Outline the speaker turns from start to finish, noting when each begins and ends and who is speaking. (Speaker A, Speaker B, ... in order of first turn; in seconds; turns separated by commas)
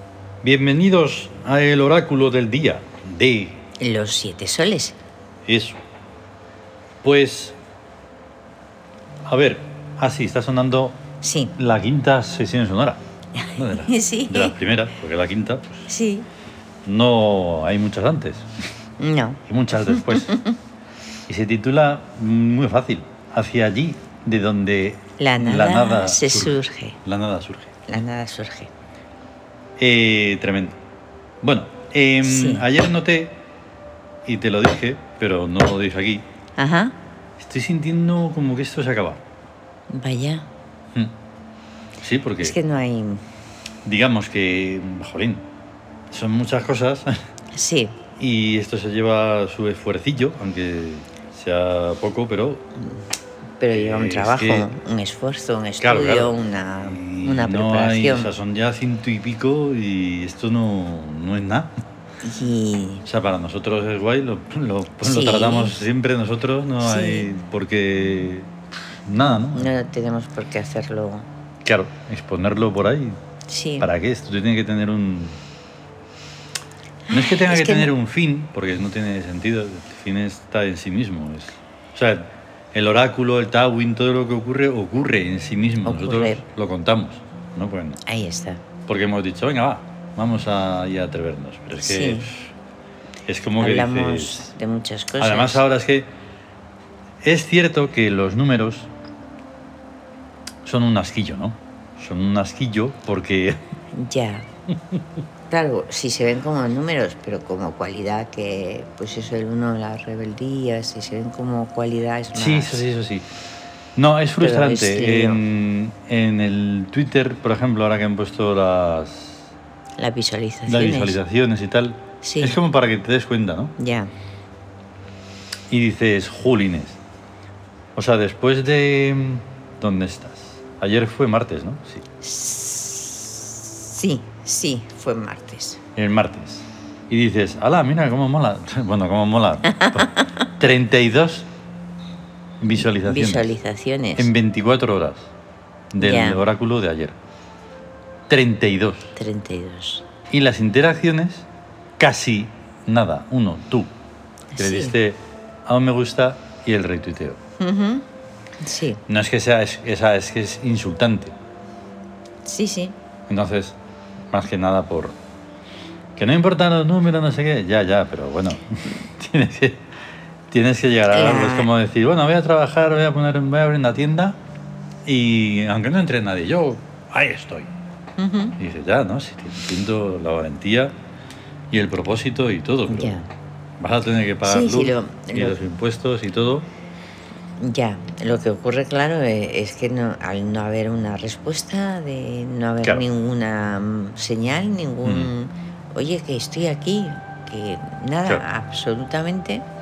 Speaker A: 0.4-3.6, Speaker B: 3.8-5.0, Speaker A: 5.5-5.8, Speaker A: 7.0-7.6, Speaker A: 9.2-11.0, Speaker B: 11.2-11.6, Speaker A: 11.6-13.0, Speaker B: 13.4-14.6, Speaker A: 13.6-15.9, Speaker B: 15.9-16.3, Speaker A: 16.9-18.5, Speaker B: 19.0-20.6, Speaker A: 19.5-20.4, Speaker A: 21.3-27.8, Speaker B: 25.2-27.0, Speaker B: 27.9-28.7, Speaker A: 29.8-30.8, Speaker A: 31.4-33.4, Speaker B: 32.2-32.7, Speaker A: 34.2-36.2, Speaker B: 36.6-37.0, Speaker A: 37.4-39.2, Speaker B: 39.9-40.5, Speaker A: 42.0-42.6, Speaker B: 42.4-43.2, Speaker A: 43.9-45.4, Speaker A: 46.1-47.1, Speaker B: 47.5-48.0, Speaker A: 48.2-52.6, Speaker B: 53.6-58.3, Speaker A: 53.7-54.7, Speaker A: 55.8-61.7, Speaker B: 62.2-63.0, Speaker A: 63.0-68.5, Speaker B: 65.0-65.9, Speaker B: 66.8-67.3, Speaker A: 69.1-69.7, Speaker B: 69.5-71.3, Speaker A: 71.6-73.2, Speaker B: 73.5-73.9, Speaker A: 73.8-75.4, Speaker B: 77.1-77.9, Speaker A: 77.1-88.0, Speaker B: 85.8-86.4, Speaker B: 88.0-88.6, Speaker A: 88.9-92.5, Speaker B: 91.8-92.3, Speaker A: 93.3-94.5, Speaker B: 93.6-95.6, Speaker A: 95.2-96.1, Speaker A: 97.2-98.9, Speaker A: 100.7-103.6, Speaker B: 103.9-104.5, Speaker B: 105.5-112.8, Speaker A: 112.3-113.3, Speaker A: 114.0-119.5, Speaker B: 114.4-115.4, Speaker B: 120.0-121.2, Speaker A: 120.7-123.7, Speaker B: 122.2-122.6, Speaker B: 123.8-124.1, Speaker A: 125.7-127.0, Speaker A: 128.0-132.0, Speaker B: 132.2-135.8, Speaker A: 136.0-141.5, Speaker B: 139.7-140.5, Speaker A: 142.6-143.6, Speaker B: 143.0-144.3, Speaker A: 144.2-145.3, Speaker A: 145.9-147.2, Speaker B: 146.0-146.4, Speaker A: 148.3-149.1, Speaker B: 149.2-150.1, Speaker A: 150.3-151.5, Speaker A: 152.0-153.9, Speaker B: 154.5-154.9, Speaker A: 154.6-157.4, Speaker B: 157.6-158.1, Speaker B: 158.6-159.0, Speaker A: 159.1-161.3, Speaker B: 162.4-162.9, Speaker A: 163.3-163.8, Speaker A: 164.3-165.2, Speaker A: 166.2-169.9, Speaker A: 170.5-174.4, Speaker B: 171.1-171.7, Speaker A: 175.1-177.7, Speaker B: 178.2-178.6, Speaker A: 178.6-180.9, Speaker A: 181.7-183.2, Speaker B: 182.9-183.3, Speaker A: 183.8-186.7, Speaker B: 184.4-185.6, Speaker B: 187.6-199.6, Speaker A: 195.1-195.3